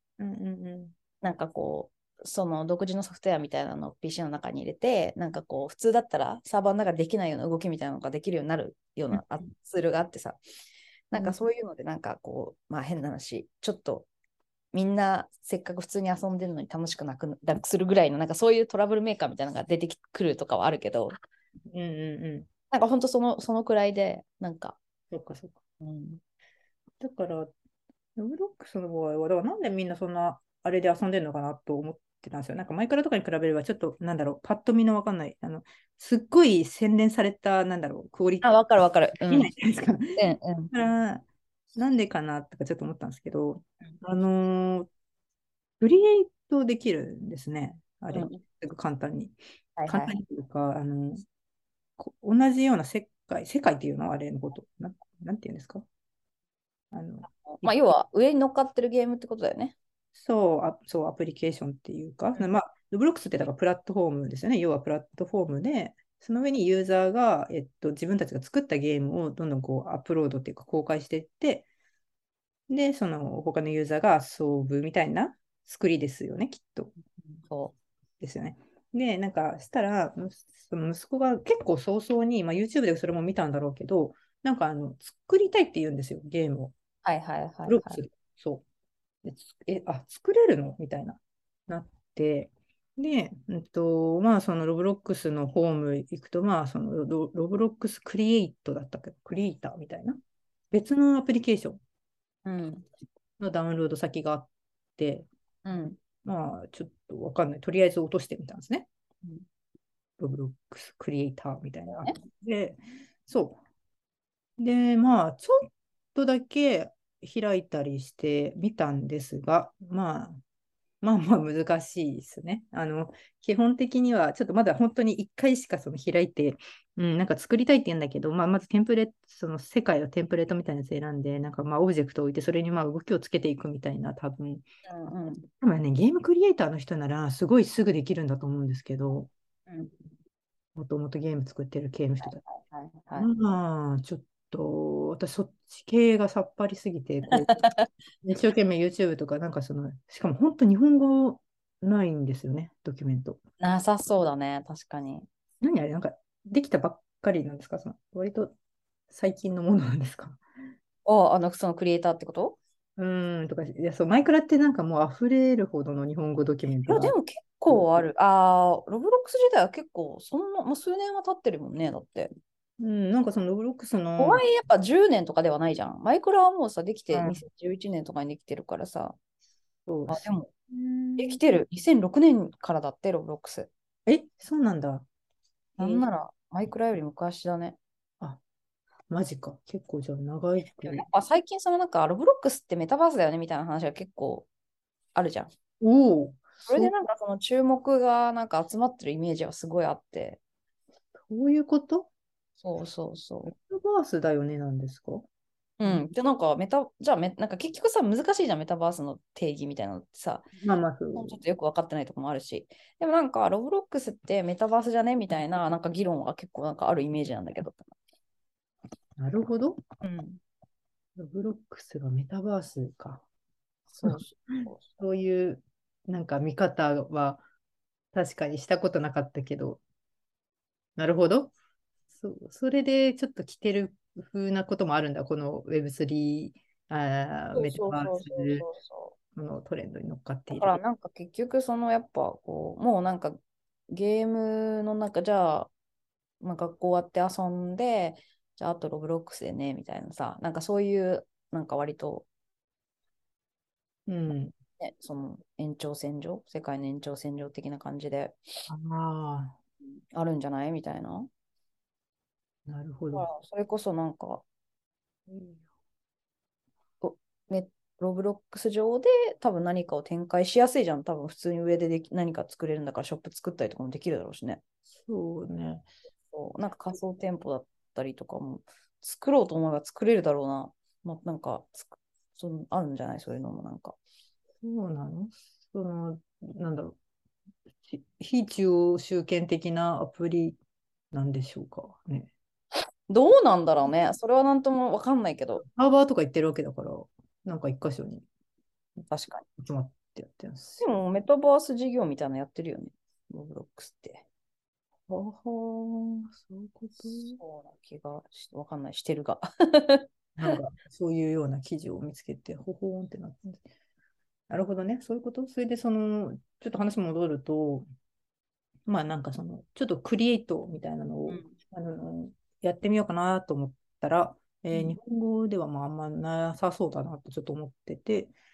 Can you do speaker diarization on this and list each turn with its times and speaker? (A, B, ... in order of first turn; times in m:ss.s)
0:00.2-0:00.9 A
0:01.2-0:10.4 B
0:11.1-0:14.1 B
0:14.7-0:21.2 B
0:21.7-0:22.5 A
0:22.7-0:24.8 B
0:25.1-0:25.6 A
0:25.8-0:26.2 B
0:27.0-0:27.5 A
0:28.2-0:38.5 A
0:38.4-0:39.5 B
0:39.3-0:41.2 A
0:40.2-0:40.7 B
0:41.8-0:44.9 A
0:45.8-0:49.4 A
0:48.1-0:48.4 B
0:49.8-0:50.2 B
0:49.9-0:51.2 A
0:52.0-0:55.8 A
0:56.9-0:57.8 A
0:57.5-0:59.8 B
1:00.2-1:11.7 A
1:12.7-1:16.9 A
1:17.4-1:17.8 B
1:18.2-1:26.8 A
1:27.0-1:28.0 B
1:27.7-1:28.6 A
1:29.2-1:40.2 A
1:40.7-1:41.8 A
1:42.4-1:42.9 B
1:43.4-1:45.3 A
1:45.6-1:46.0 B
1:46.2-1:48.9 A
1:50.2-1:53.6 A
1:51.9-1:52.2 B
1:54.6-2:00.4 A
2:01.0-2:14.7 A
2:14.9-2:15.5 B
2:15.6-2:19.3 A
2:19.7-2:20.0 B
2:20.8-2:22.4 A
2:22.2-2:23.3 B
2:23.2-2:27.6 A
2:27.5-2:27.9 B
2:28.2-2:33.4 A
2:33.6-2:35.3 B
2:35.6-2:38.5 A
2:39.1-2:40.4 A
2:41.0-2:42.6 B
2:43.0-2:47.1 A
2:46.9-2:52.3 B
2:52.8-2:54.4 A
2:54.2-2:59.2 B
2:57.1-2:57.4 A
2:59.9-3:01.4 A
3:00.1-3:00.5 B
3:01.2-3:03.7 B
3:04.1-3:05.0 A
3:05.8-3:06.1 A
3:05.8-3:07.8 B
3:09.1-3:11.1 A
3:10.7-3:14.5 B
3:15.2-3:15.5 B
3:15.8-3:16.9 A
3:16.6-3:20.4 B
3:21.2-3:22.1 A
3:22.6-3:23.5 B
3:23.4-3:25.2 A
3:25.8-3:30.5 B
3:30.6-3:31.4 A
3:31.2-3:37.9 B
3:39.2-3:39.8 A
3:40.0-3:40.4 B
3:41.2-3:43.2 A
3:43.9-3:44.9 B
3:44.0-3:47.4 A
3:48.1-3:49.8 A
3:51.0-3:51.5 A
3:52.1-3:58.7 A
3:57.6-3:59.2 B
3:59.4-4:00.8 A
4:00.5-4:03.4 B
4:03.9-4:05.7 B
4:06.4-4:12.3 B
4:14.1-4:14.6 A
4:14.8-4:18.4 B
4:18.7-4:19.6 A
4:20.1-4:21.3 B
4:22.7-4:23.3 A
4:23.1-4:24.4 B
4:25.3-4:25.6 A
4:27.0-4:34.6 B
4:35.0-4:35.9 A
4:36.3-4:44.0 B
4:44.6-4:47.0 A
4:47.9-4:50.6 A
4:51.1-4:52.3 A
4:53.1-4:55.6 B
4:55.6-4:58.2 A
4:59.1-4:59.4 B
4:59.6-5:00.9 A
5:00.8-5:04.2 B
5:05.1-5:07.4 A
5:07.4-5:10.6 B
5:10.4-5:13.6 A
5:14.5-5:17.9 A
5:18.9-5:28.3 A
5:21.3-5:21.5 B